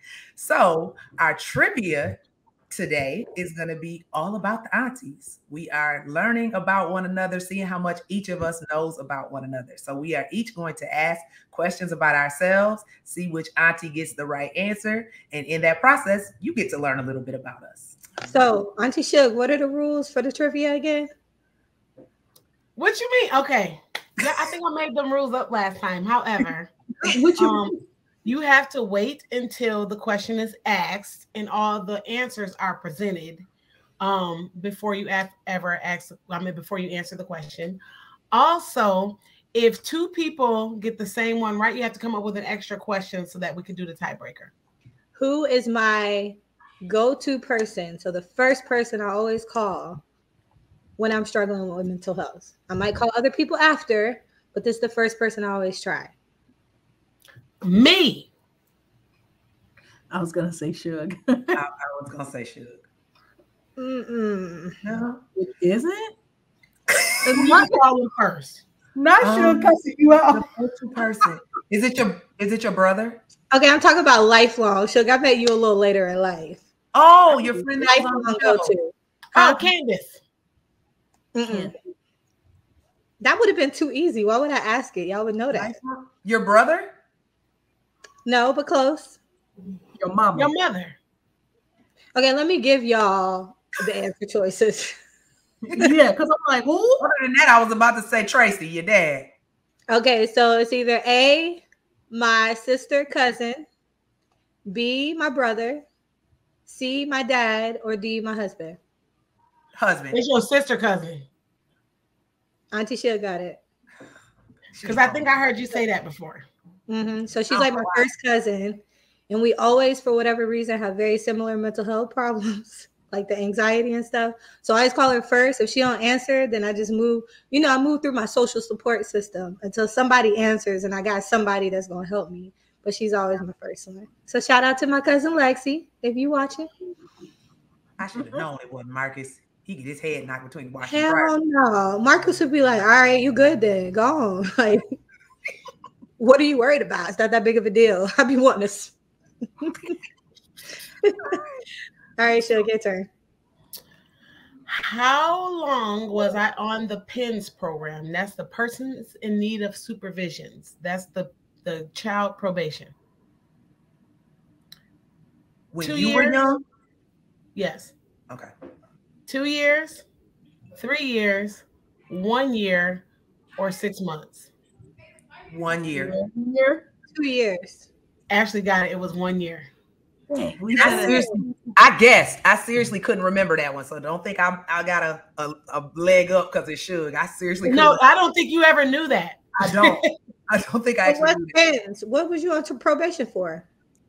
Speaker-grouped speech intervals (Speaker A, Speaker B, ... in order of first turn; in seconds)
Speaker A: 0.4-18.2, 61.5-62.8, 64.8-65.2, 69.2-69.7, 70.3-73.2, 76.9-78.8, 85.5-86.9, 97.0-99.3, 109.8-110.2, 114.7-115.3, 117.5-118.1, 138.0-141.3, 165.7-166.6, 175.5-176.2, 180.8-188.0, 189.6-191.6
Speaker B: 18.2-21.1, 45.1-50.0, 51.0-56.1, 63.8-64.8, 73.5-76.6, 77.8-79.6, 81.3-81.7, 83.2-85.8, 88.2-89.2, 92.1-94.9, 99.9-103.7, 104.7-105.8, 106.7-108.8, 112.7-113.6, 116.9-136.7, 140.9-144.8, 146.2-148.9, 149.6-149.9, 151.0-151.4, 152.2-153.1, 177.1-177.9, 180.8-181.4, 191.0-193.7
Speaker C: 22.8-33.5, 34.0-37.8, 38.3-44.5, 57.6-58.3, 67.3-68.6, 79.3-80.2, 90.3-91.0, 110.1-111.2, 114.8-116.5, 154.7-162.9, 165.8-166.4, 167.5-167.9, 169.3-170.0, 170.8-173.0, 173.6-174.5, 178.3-179.7, 187.6-190.1
Speaker D: 60.1-61.6, 65.3-66.1, 67.2-67.8, 68.9-70.5, 81.5-81.7, 90.0-90.5, 95.6-97.0, 175.9-176.8, 180.3-181.7